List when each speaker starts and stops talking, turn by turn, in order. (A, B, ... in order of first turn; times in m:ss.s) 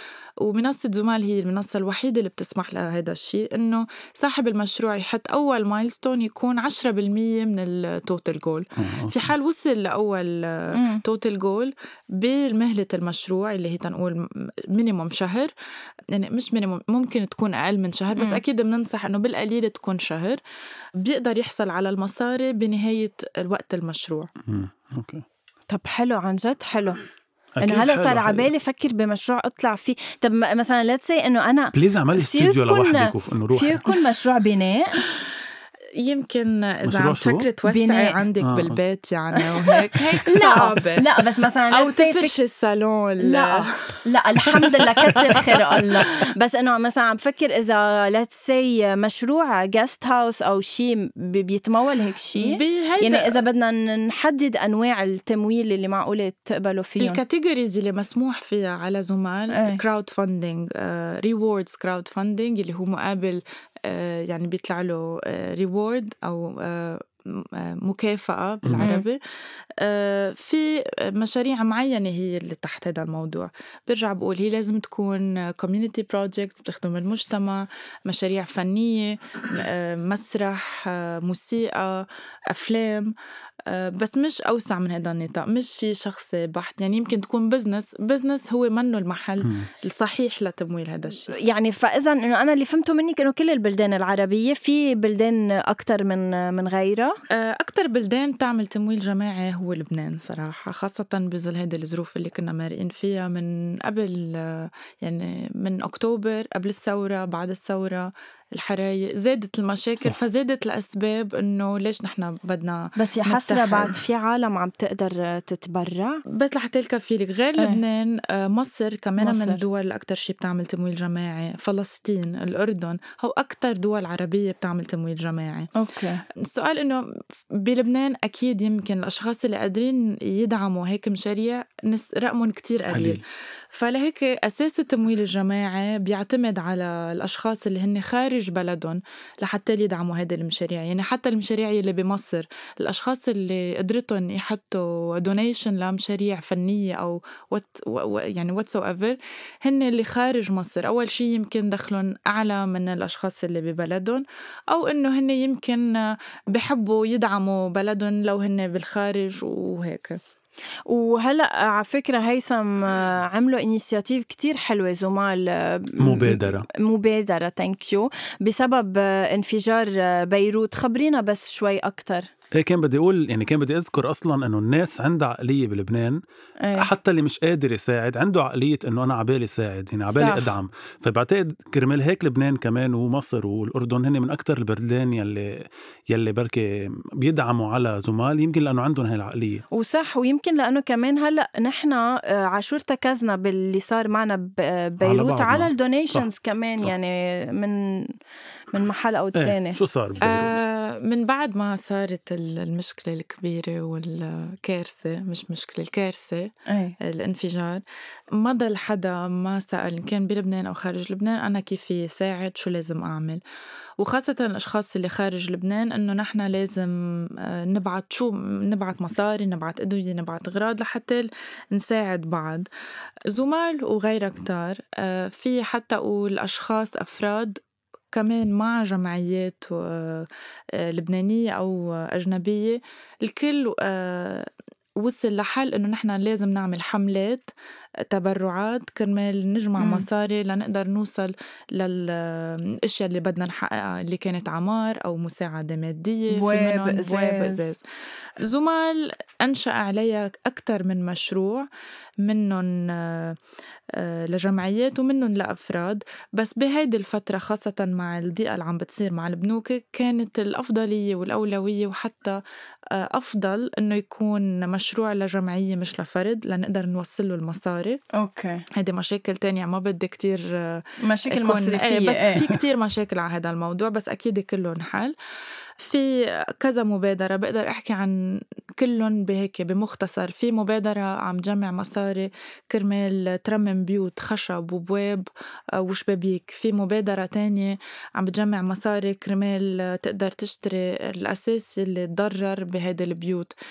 0:00.4-0:15.5 A
0:08.8-0:09.3 B
0:10.7-0:11.0 C
0:16.1-0:20.4 A
0:21.0-0:24.3 A
0:24.4-0:25.2 B
0:25.7-0:27.0 C
0:27.6-0:28.5 B
0:27.6-0:35.0 C
0:31.7-0:33.8 B
0:36.0-0:41.1 A
0:36.8-0:37.5 B
0:37.7-0:38.2 C
0:38.4-0:38.8 B
0:39.4-0:42.3 C
0:41.7-0:43.8 A
0:43.2-0:57.2 C
0:44.5-0:46.0 A
0:52.4-0:53.3 A
0:57.0-1:09.2 A
0:59.5-0:59.8 C
1:08.6-1:08.9 B
1:08.8-1:09.0 C
1:09.8-1:23.1 A
1:23.7-1:31.4 A
1:29.4-1:29.7 B
1:31.4-1:37.2 C
1:37.3-1:54.0 A
1:53.0-1:56.2 C
1:56.3-2:05.7 A
1:59.2-1:59.6 C
2:05.7-2:06.2 C
2:06.4-2:40.2 A
2:12.9-2:13.2 B
2:40.9-2:52.3 C
2:46.0-2:46.6 B
2:52.5-2:56.2 B
2:56.6-2:56.9 C
2:56.8-3:09.6 B
3:00.1-3:00.5 C
3:09.7-3:18.1 C
3:15.0-3:16.2 B
3:18.7-3:19.8 C
3:19.4-3:20.6 B
3:20.2-3:27.8 A
3:26.7-3:26.9 C
3:28.3-3:33.4 A
3:34.0-3:42.7 A
3:43.3-3:47.6 A
3:48.1-3:54.5 A
3:55.0-3:57.5 A
3:58.1-4:07.8 A
3:59.8-4:00.0 C
4:06.3-4:07.6 C
4:08.4-4:11.7 A
4:12.2-4:13.4 A
4:13.9-4:22.4 A
4:22.9-4:28.0 A
4:28.1-4:28.6 C
4:28.7-4:35.1 A
4:31.0-4:32.4 C
4:35.8-4:38.2 A
4:38.8-4:53.5 A